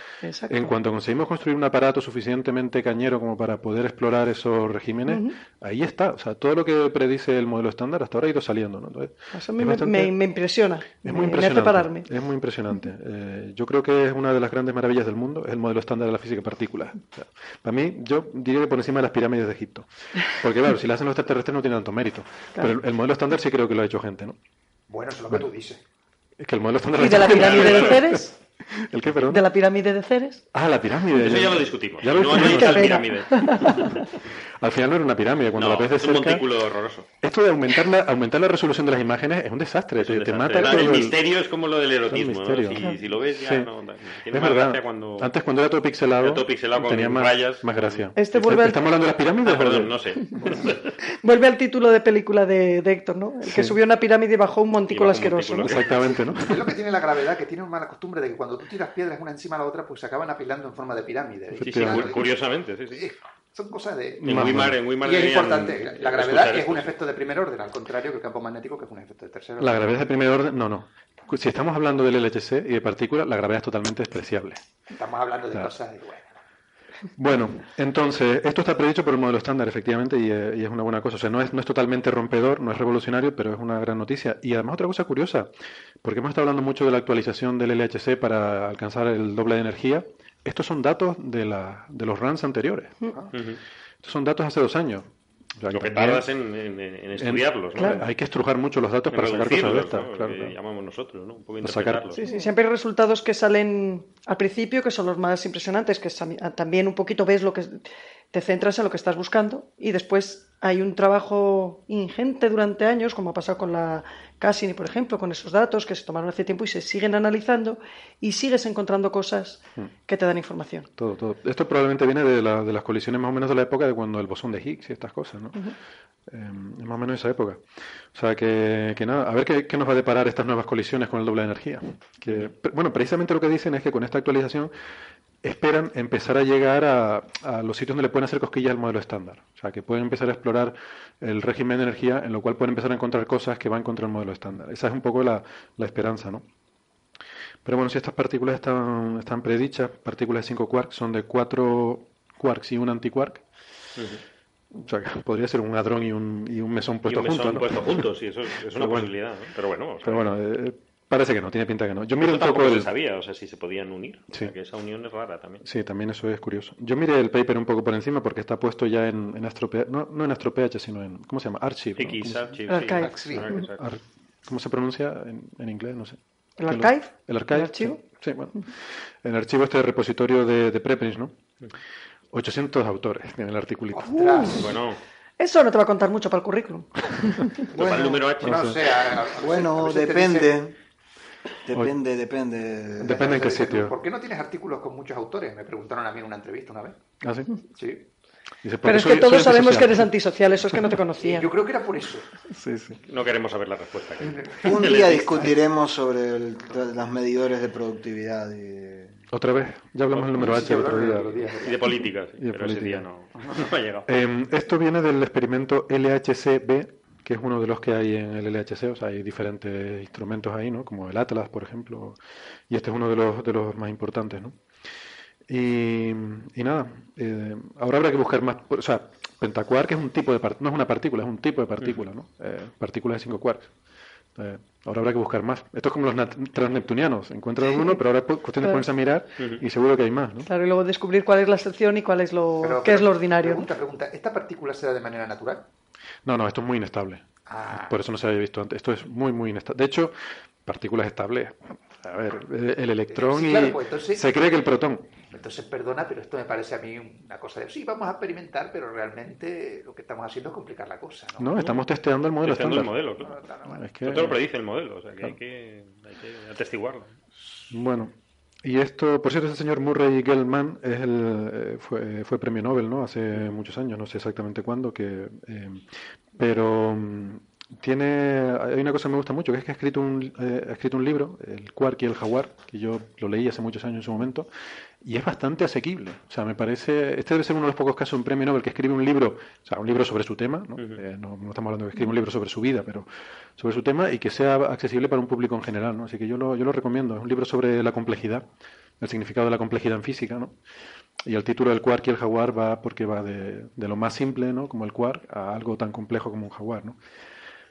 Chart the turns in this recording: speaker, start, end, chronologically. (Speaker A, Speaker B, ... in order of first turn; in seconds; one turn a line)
Speaker A: 0.2-0.7
Speaker B: 0.5-10.2
Speaker A: 5.1-5.3
Speaker A: 9.3-12.1
Speaker B: 11.0-24.4
Speaker C: 24.9-25.8
Speaker B: 26.4-29.4
Speaker A: 26.9-28.3
Speaker D: 27.3-28.0
Speaker A: 29.2-30.4
Speaker B: 30.5-33.1
Speaker D: 31.1-34.1
Speaker A: 32.4-34.1
Speaker B: 34.6-36.5
Speaker D: 35.6-37.1
Speaker B: 37.2-41.2
Speaker D: 40.0-45.3
Speaker A: 40.6-41.1
Speaker B: 42.1-43.7
Speaker B: 44.3-50.0
Speaker D: 46.2-48.3
Speaker A: 48.2-48.8
Speaker D: 49.4-50.9
Speaker C: 50.4-50.8
Speaker A: 51.2-55.9
Speaker B: 53.5-53.8
Speaker D: 54.9-56.0
Speaker B: 55.6-56.7
Speaker C: 56.3-62.4
Speaker B: 61.6-62.2
Speaker D: 61.6-63.1
Speaker C: 63.0-64.5
Speaker B: 64.2-64.8
Speaker D: 64.2-67.0
Speaker C: 65.0-70.0
Speaker B: 69.6-74.6
Speaker C: 74.9-76.4
Speaker B: 77.2-85.5
Speaker B: 86.0-93.0
Speaker D: 93.3-93.6
Speaker B: 94.0-96.3
Speaker D: 95.7-98.1
Speaker B: 97.2-100.5
Speaker A: 97.8-98.0
Speaker D: 99.1-102.3
Speaker B: 101.6-102.2
Speaker A: 102.2-120.9
Speaker B: 121.0-125.6
Speaker B: 126.3-127.6
Speaker B: 128.1-134.7
Speaker B: 135.4-146.4
Speaker B: 147.6-153.4
Speaker D: 154.0-154.2
Speaker B: 154.8-158.1
Speaker D: 157.1-160.3
Speaker B: 158.7-159.1
Speaker B: 160.0-162.9
Speaker D: 162.2-165.6
Speaker B: 165.6-172.6
Speaker D: 172.0-173.8
Speaker A: 172.7-173.6
Speaker C: 173.0-173.5
Speaker B: 173.3-181.3
Speaker A: 176.6-178.0
Speaker B: 182.3-184.2
Speaker C: 183.9-184.8
Speaker A: 184.0-184.7
Speaker D: 184.6-185.0
Speaker A: 185.4-187.6
Speaker D: 187.7-189.0
Speaker E: 187.7-188.5
Speaker C: 188.4-190.6
Speaker B: 188.5-188.8
Speaker E: 189.3-190.8
Speaker E: 191.7-193.5
Speaker B: 193.0-193.9
Speaker C: 193.0-197.0
Speaker B: 197.2-197.6
Speaker C: 197.8-198.0
Speaker B: 198.6-200.1
Speaker A: 198.8-201.5
Speaker C: 201.2-202.3
Speaker B: 202.5-203.0
Speaker D: 203.1-205.5
Speaker C: 204.2-205.6
Speaker E: 204.6-209.2
Speaker B: 209.3-211.3
Speaker D: 210.2-214.1
Speaker C: 210.3-212.1
Speaker B: 212.4-213.1
Speaker B: 214.1-222.2
Speaker B: 222.7-224.6
Speaker B: 225.5-233.7
Speaker B: 234.4-240.5
Speaker A: 240.5-243.7
Speaker C: 242.6-245.7
Speaker B: 246.2-247.2
Speaker C: 247.5-248.0
Speaker B: 247.8-255.1
Speaker C: 253.1-254.3
Speaker C: 255.3-261.6
Speaker B: 261.4-263.0
Speaker D: 262.4-263.4
Speaker C: 263.2-263.8
Speaker B: 263.7-264.4
Speaker D: 264.0-267.1
Speaker B: 267.7-284.5
Speaker B: 285.0-293.1
Speaker D: 290.8-291.0
Speaker B: 293.6-298.5
Speaker B: 299.0-300.6
Speaker B: 301.2-307.0